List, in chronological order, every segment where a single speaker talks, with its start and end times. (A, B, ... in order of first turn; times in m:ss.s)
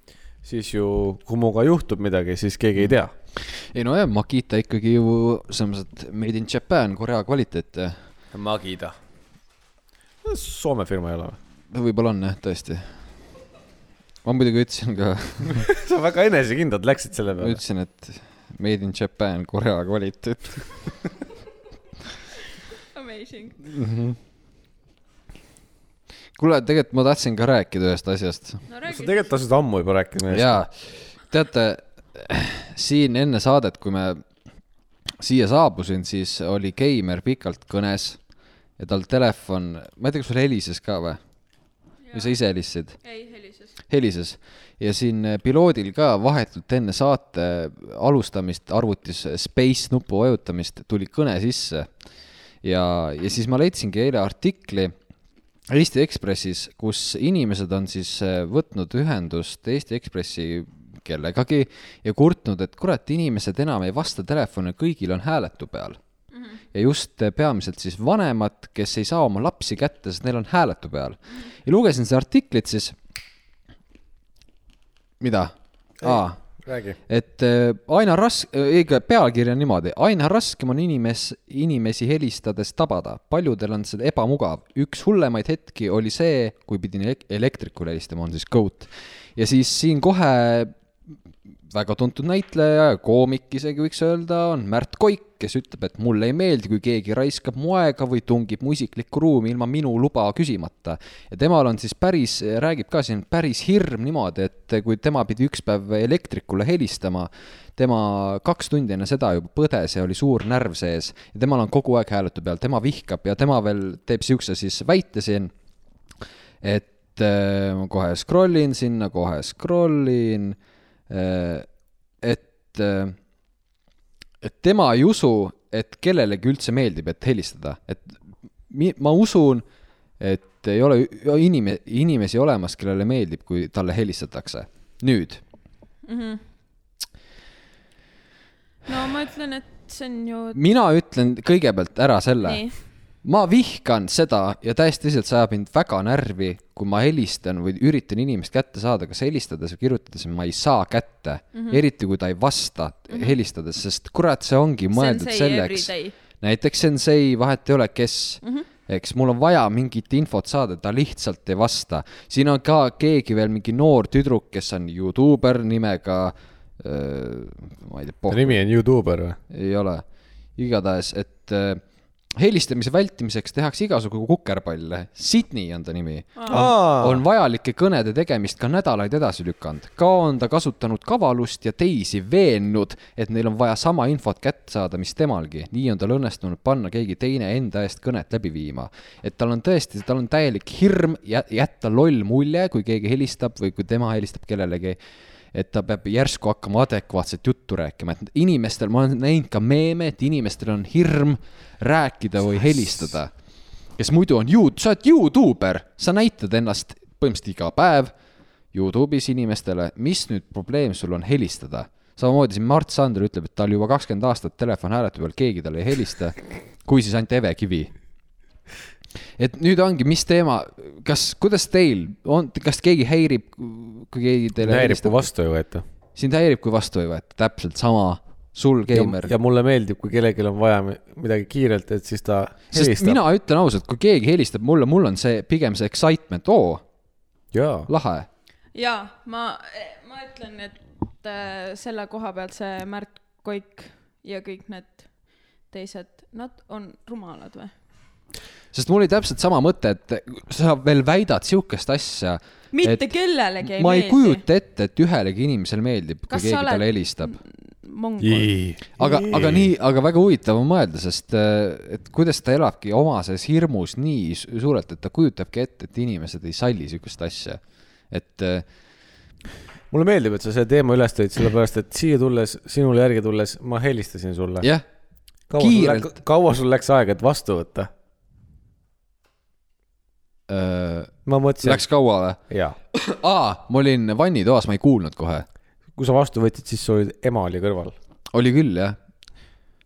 0:00.4-0:03.1 A
0:02.8-0:08.0 B
0:08.3-0:09.0 A
0:10.2-0:11.4 A
0:11.7-0:12.9 B
0:14.2-0:15.7 B
0:15.5-0:17.6 A
0:17.4-0:20.7 B
0:22.9-0:23.6 C
0:23.7-0:24.2 B
0:26.4-0:28.6 B
0:28.7-0:29.3 C
0:28.9-0:30.6 A
0:30.3-0:34.2 B
0:35.2-0:38.2 B
0:38.8-0:41.2 B
0:42.0-0:42.4 C
0:42.1-0:43.0 B
0:43.0-0:43.8 C
0:43.9-0:51.9 B
0:52.6-0:54.9 B
0:55.7-1:06.0 B
1:06.3-1:06.6 C
1:06.7-1:13.0 B
1:15.2-1:16.4 B
1:16.0-1:17.0 A
1:17.1-1:31.1 B
1:31.7-1:55.5 B
1:56.6-2:00.6 B
2:01.1-2:01.7 B
2:02.2-2:03.2 B
2:04.4-2:08.2 B
2:08.7-2:09.6 B
2:10.2-2:15.4 B
2:16.0-2:16.4 C
2:18.9-2:20.6 C
2:20.5-2:22.6 B
2:22.4-2:22.7 C
2:23.2-2:48.6 B
2:31.5-2:31.8 C
2:34.9-2:36.1 C
2:48.3-2:49.4 A
2:49.5-2:50.0 B
2:50.6-2:51.8 B
2:52.3-3:15.0 B
2:56.4-2:56.6 C
2:56.5-2:57.2 A
3:15.5-3:23.3 B
3:24.0-3:28.1 B
3:28.7-3:37.9 B
3:39.4-3:45.3 B
3:44.6-3:45.8 A
3:46.1-3:49.3 B
3:48.9-3:53.2 A
3:52.7-3:56.8 B
3:57.5-3:57.9 A
3:57.9-3:58.3 B
3:58.7-4:05.1 C
4:05.7-4:07.7 C
4:08.7-4:13.1 B
4:12.7-4:14.4 C
4:13.6-4:17.4 B
4:16.3-4:18.5 C
4:18.2-4:19.7 A
4:19.0-4:28.6 B
4:29.9-4:34.7 A
4:35.5-4:37.9 A
4:35.6-4:36.2 B
4:40.5-4:42.4 B
4:41.2-4:41.9 A
4:42.5-4:42.8 A
4:42.9-4:45.4 B
4:46.0-4:47.9 A
4:48.3-4:49.0 B